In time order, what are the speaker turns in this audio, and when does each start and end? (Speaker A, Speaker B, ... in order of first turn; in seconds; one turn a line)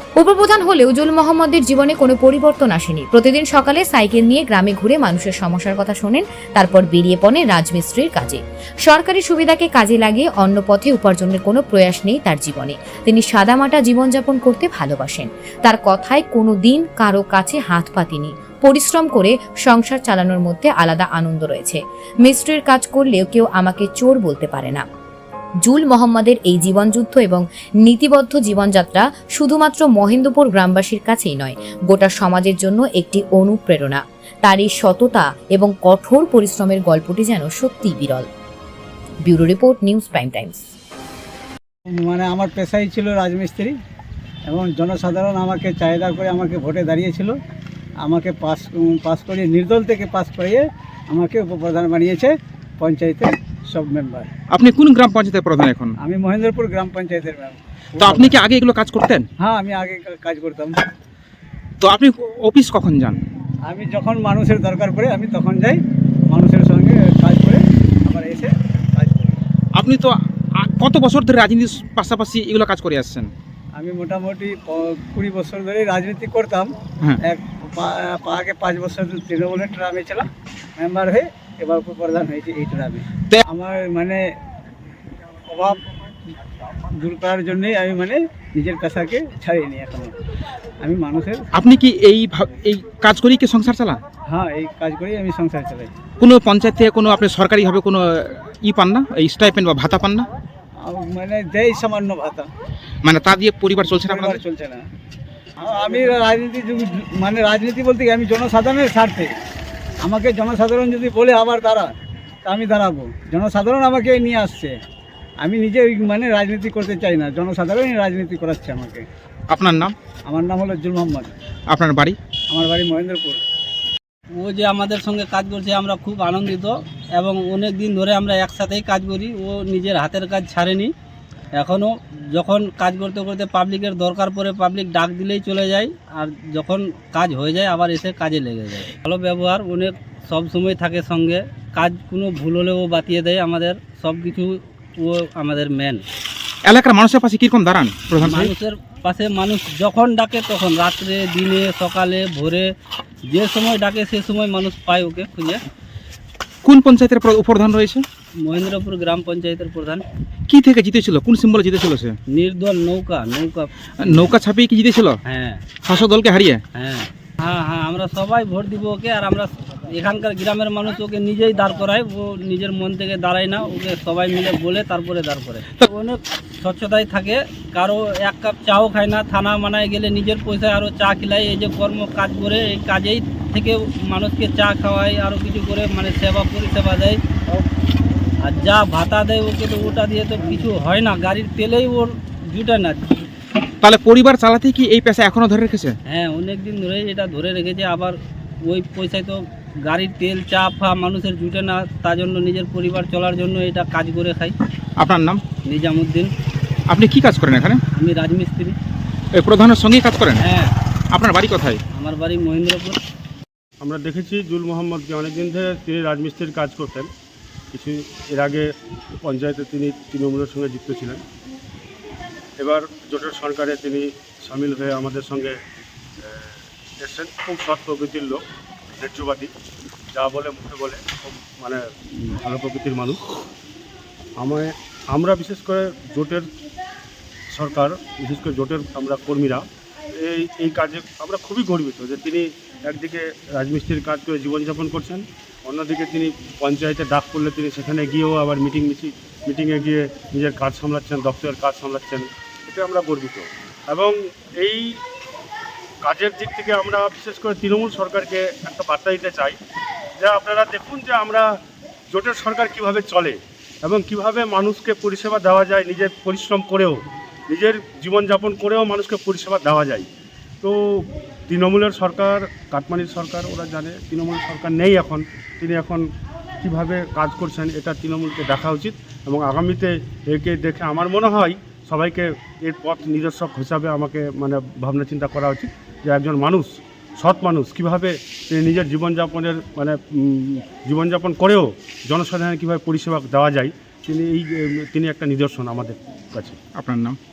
Speaker A: 0.2-24.9
Speaker A: 25.6-38.3
Speaker A: 39.2-40.6
Speaker B: 42.0-43.7
Speaker B: 44.5-47.4
Speaker B: 48.0-54.3
Speaker C: 54.5-56.0
Speaker B: 56.0-58.4
Speaker C: 58.0-59.3
Speaker B: 59.4-60.9
Speaker C: 61.8-63.2
Speaker B: 63.7-65.8
Speaker B: 66.3-69.4
Speaker C: 69.8-73.3
Speaker B: 73.8-84.2
Speaker B: 85.5-85.8
Speaker B: 87.0-90.1
Speaker B: 90.8-91.5
Speaker C: 91.5-94.0
Speaker B: 94.3-95.9
Speaker C: 96.2-100.3
Speaker B: 100.8-102.5
Speaker C: 103.0-104.4
Speaker B: 104.0-104.9
Speaker B: 105.6-109.3
Speaker B: 110.0-111.9
Speaker B: 112.5-114.8
Speaker B: 115.4-119.0
Speaker C: 119.5-120.0
Speaker B: 120.3-121.3
Speaker C: 121.7-122.2
Speaker B: 122.5-123.4
Speaker D: 124.4-130.9
Speaker D: 131.6-146.0
Speaker C: 146.7-148.5
Speaker D: 148.2-152.7
Speaker D: 153.3-155.6
Speaker C: 156.7-158.0
Speaker D: 158.4-160.0
Speaker C: 160.5-162.2
Speaker D: 162.3-163.7
Speaker C: 164.0-165.2
Speaker D: 165.3-165.6
Speaker C: 165.8-166.6
Speaker D: 166.8-187.2
Speaker D: 188.4-193.2
Speaker C: 193.8-196.0
Speaker D: 196.1-204.5
Speaker C: 205.0-205.4
Speaker D: 205.7-206.3
Speaker C: 206.9-207.8
Speaker D: 208.0-208.8
Speaker C: 209.3-210.5
Speaker D: 210.4-210.7
Speaker C: 211.1-211.8
Speaker D: 211.9-213.0
Speaker E: 213.8-217.1
Speaker E: 217.7-218.7
Speaker E: 219.2-221.2
Speaker E: 222.6-225.6
Speaker E: 226.2-228.4
Speaker E: 229.0-229.5
Speaker E: 230.1-233.3
Speaker E: 234.4-236.5
Speaker E: 237.5-239.7
Speaker E: 240.2-255.0
Speaker E: 256.0-259.6
Speaker E: 260.2-261.5
Speaker E: 262.1-270.1
Speaker E: 270.6-276.1
Speaker E: 276.6-296.6
Speaker C: 296.8-297.2